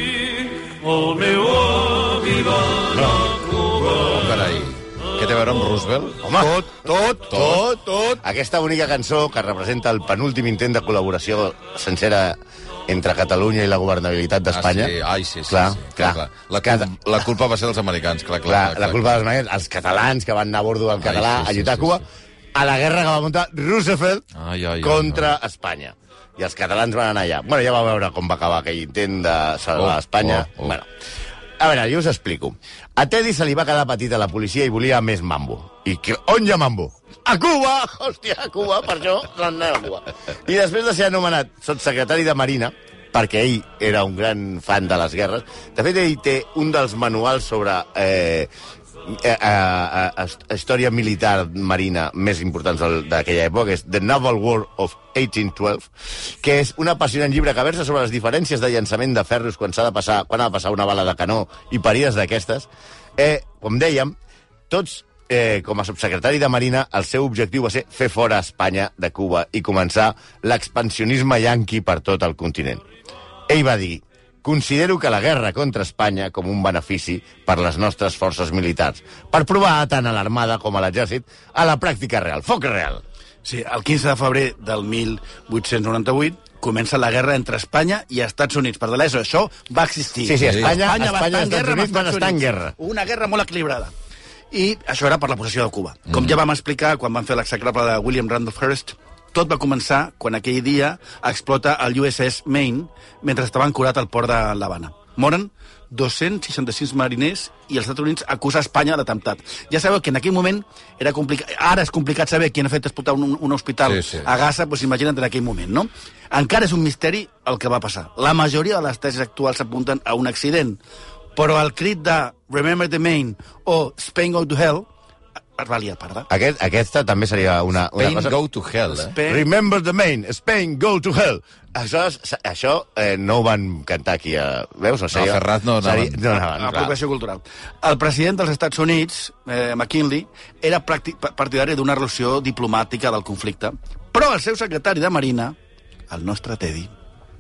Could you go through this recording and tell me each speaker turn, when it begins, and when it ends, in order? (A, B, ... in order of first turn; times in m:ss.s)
0:01.1-0:02.2 A
0:02.9-0:03.4 B
0:03.8-0:06.2 C
0:06.2-0:15.0 B
0:06.3-0:07.3 A
0:07.3-0:07.6 C
0:14.5-0:19.2 C
0:15.5-0:16.9 B
0:18.5-0:22.0 B
0:21.0-0:22.0 C
0:22.6-0:24.2 B
0:24.4-0:25.3 C
0:24.8-0:30.9 B
0:29.8-0:30.8 C
0:31.6-0:48.5 B
0:49.0-1:04.1 B
1:04.7-1:12.8 B
1:13.5-1:23.0 B
1:23.4-1:33.9 A
1:30.2-1:32.8 B
1:30.4-1:30.8 C
1:34.5-2:00.8 A
1:53.9-1:54.3 C
2:01.4-2:04.9 A
2:05.6-2:06.3 A
2:06.3-2:08.4 B
2:07.9-2:09.1 C
2:08.9-2:09.5 A
2:09.2-2:17.0 B
2:15.1-2:16.2 C
2:16.5-2:25.6 A
2:26.1-2:26.9 A